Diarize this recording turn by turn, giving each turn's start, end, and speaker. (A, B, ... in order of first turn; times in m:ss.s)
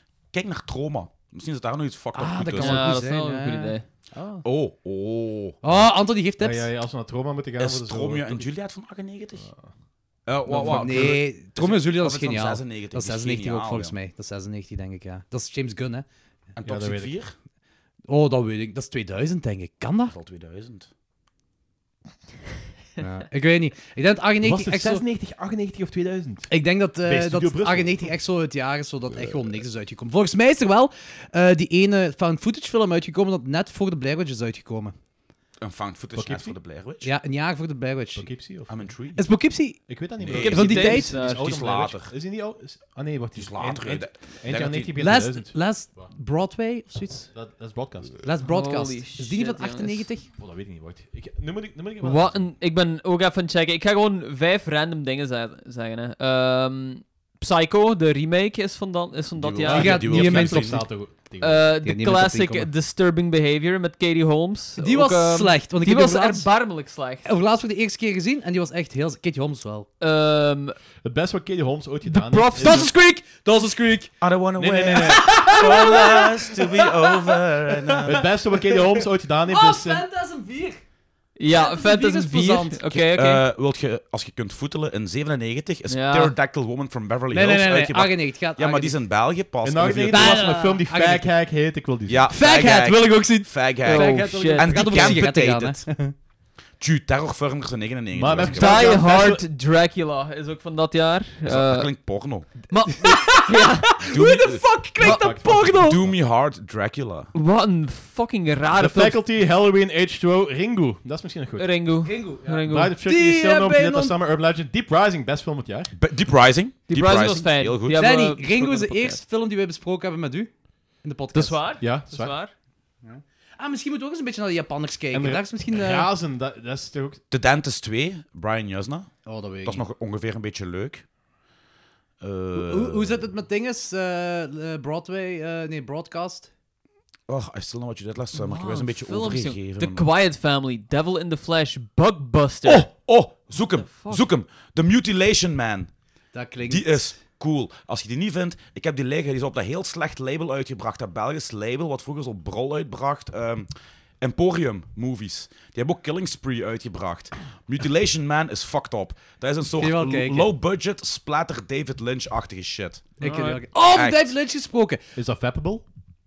0:00.3-0:02.8 A
0:02.2-0:04.4 B
0:02.6-0:03.8 C
0:04.4-0:05.6 A
0:05.6-0:06.7 B
0:06.4-0:08.5 D
0:07.6-0:09.5 A
0:09.4-0:09.7 D
0:10.3-0:14.0 A
0:10.5-0:16.1 B
0:16.6-0:17.3 A
0:16.6-0:17.1 D
0:18.1-0:20.1 B
0:20.1-0:20.9 A
0:23.0-0:25.0 B
0:24.4-0:26.5 D
0:26.5-0:34.9 B
0:27.0-0:28.1 D
0:35.6-0:37.1 A
0:36.2-0:36.6 D
0:37.0-0:38.3 B
0:38.2-0:46.1 D
0:38.7-0:39.0 A
0:39.2-0:41.1 B
0:40.2-0:42.1 A
0:40.6-0:41.5 C
0:43.4-0:45.0 A
0:45.0-0:47.3 B
0:47.3-0:48.2 D
0:48.2-0:50.3 B
0:48.4-0:50.1 C
0:50.4-0:52.5 D
0:52.0-1:00.6 C
0:59.4-1:00.8 A
0:59.7-1:01.6 D
0:59.8-1:00.6 B
1:01.4-1:07.3 C
1:01.8-1:02.7 B
1:04.8-1:06.5 B
1:07.2-1:09.9 B
1:10.0-1:10.8 C
1:11.0-1:12.9 D
1:12.1-1:12.9 C
1:12.6-1:14.1 B
1:14.2-1:18.3 A
1:14.6-1:16.2 D
1:15.0-1:17.3 B
1:18.1-1:20.1 D
1:19.5-1:20.8 B
1:21.4-1:23.4 C
1:21.5-1:22.8 B
1:22.9-1:30.5 A
1:25.9-1:26.4 C
1:27.3-1:29.0 B
1:29.6-1:32.3 D
1:30.1-1:31.3 B
1:32.1-1:35.9 A
1:32.3-1:36.1 B
1:33.8-1:35.2 C
1:36.8-1:39.1 A
1:38.1-1:39.4 D
1:38.5-1:41.9 C
1:41.4-1:42.5 A
1:42.7-1:44.0 C
1:42.9-1:46.0 B
1:44.1-1:44.7 A
1:45.0-1:46.2 D
1:45.8-1:47.3 A
1:47.4-1:49.2 C
1:48.7-1:55.9 D
1:51.6-1:53.0 C
1:52.0-1:54.2 B
1:56.0-1:58.0 A
1:56.9-1:59.2 C
1:58.0-2:01.6 B
2:01.3-2:02.5 C
2:01.8-2:02.4 D
2:03.0-2:06.1 B
2:05.1-2:07.2 D
2:07.3-2:11.0 A
2:09.2-2:09.8 B
2:12.2-2:13.1 A
2:12.6-2:16.5 B
2:17.3-2:20.1 A
2:18.4-2:22.9 C
2:18.5-2:18.8 B
2:22.6-2:33.7 A
2:23.8-2:24.3 C
2:26.3-2:27.1 B
2:34.2-2:43.1 A
2:39.8-2:40.5 B
2:43.2-2:45.0 B
2:43.2-2:43.6 C
2:43.9-2:44.3 A
2:45.2-2:45.8 D